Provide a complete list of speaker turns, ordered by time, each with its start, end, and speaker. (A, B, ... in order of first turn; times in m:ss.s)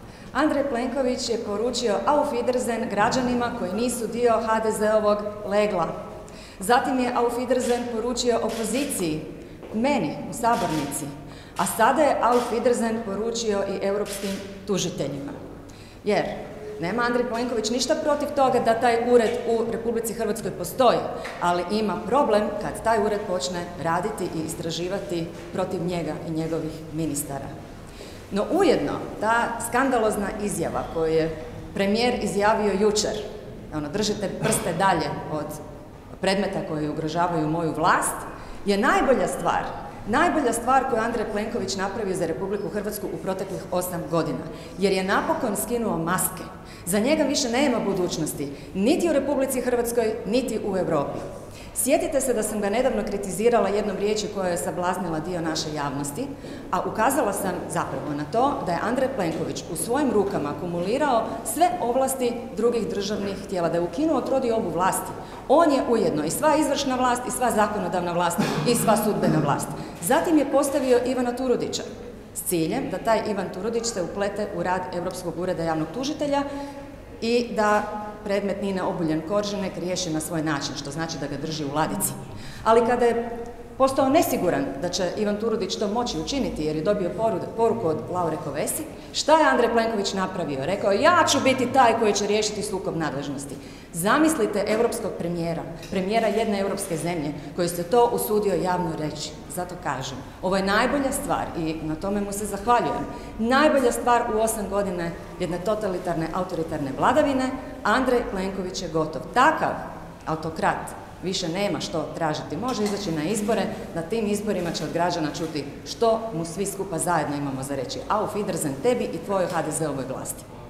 0:00.3-0:05.9 A
0:06.6-0:15.4 A
0:16.0-0:27.5 A
0:28.3-0:35.6 A
0:36.2-0:51.2 A
0:51.7-1:16.4 A
1:17.2-2:00.4 A